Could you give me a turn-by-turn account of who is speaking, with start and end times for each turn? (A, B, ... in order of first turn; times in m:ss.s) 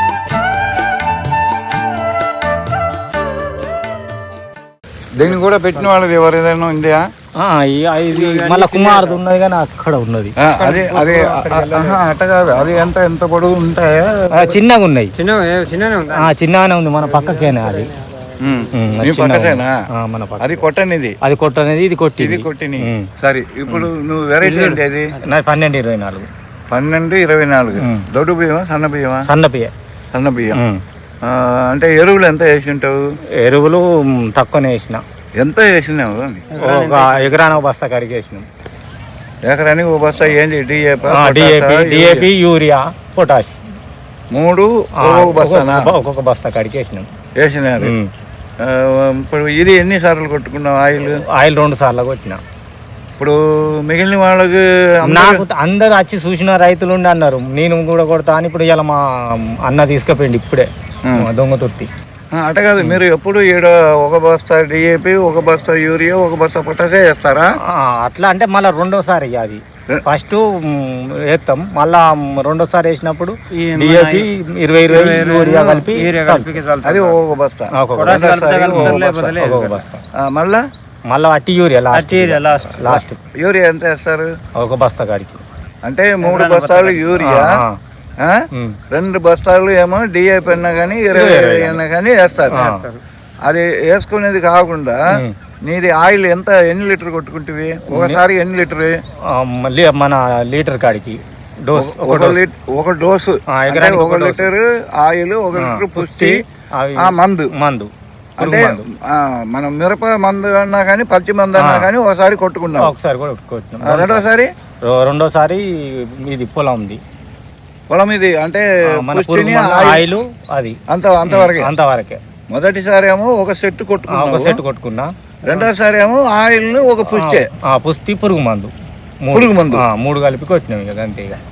0:05.2-0:07.0 A
0:05.3-0:05.8 B
0:07.4-0:10.4 C
0:08.1-0:09.2 B
0:10.4-0:14.6 A
0:10.6-0:12.0 B
0:14.4-0:15.1 C
0:15.1-0:16.3 B
0:16.1-0:17.9 C
0:17.0-0:18.9 B
0:18.4-0:19.7 A
0:18.8-0:20.6 C
0:20.4-0:21.2 A
0:21.2-0:23.1 C
0:22.2-0:25.1 A
0:24.4-0:25.2 B
0:25.2-0:26.3 C
0:26.7-0:29.3 A
0:27.8-0:28.0 C
0:29.3-0:29.7 C
0:30.1-0:30.6 A
0:30.6-0:30.8 C
0:31.2-0:33.0 A
0:33.4-0:35.0 C
0:35.4-0:36.4 A
0:36.5-0:37.5 B
0:36.6-0:38.5 C
0:39.5-0:42.2 A
0:41.1-0:43.5 C
0:44.3-0:45.9 A
0:45.0-0:47.1 C
0:47.4-0:47.9 A
0:47.8-0:48.1 C
0:48.6-0:51.2 A
0:51.1-0:52.4 C
0:53.2-0:55.4 A
0:55.1-1:00.7 C
1:01.2-1:01.9 C
1:02.4-1:07.5 A
1:07.7-1:16.5 C
1:13.5-1:14.2 B
1:14.9-1:17.2 B
1:16.8-1:19.4 A
1:17.8-1:18.2 C
1:18.0-1:19.8 B
1:18.8-1:20.0 C
1:20.2-1:20.6 A
1:21.1-1:23.2 C
1:21.9-1:22.9 B
1:22.9-1:24.3 A
1:24.6-1:25.4 C
1:25.8-1:27.6 A
1:26.2-1:27.2 B
1:27.2-1:27.8 C
1:28.9-1:32.6 A
1:31.1-1:31.8 C
1:32.5-1:33.0 B
1:32.5-1:32.8 C
1:33.5-1:35.0 A
1:35.7-1:38.9 A
1:37.9-1:38.2 C
1:39.3-1:42.4 C
1:41.8-1:46.4 A
1:43.5-1:44.5 C
1:45.6-1:48.8 C
1:47.0-1:47.5 A
1:48.4-1:52.9 A
1:51.6-1:51.9 C
1:52.8-1:54.3 C
1:53.8-1:54.5 A
1:54.9-1:57.0 C
1:57.9-2:00.0 A
1:59.0-2:02.2 C
2:00.9-2:01.7 A
2:02.5-2:04.6 A
2:04.1-2:05.1 C
2:05.5-2:07.5 A
2:07.1-2:08.7 C
2:09.2-2:11.4 C
2:09.3-2:09.8 A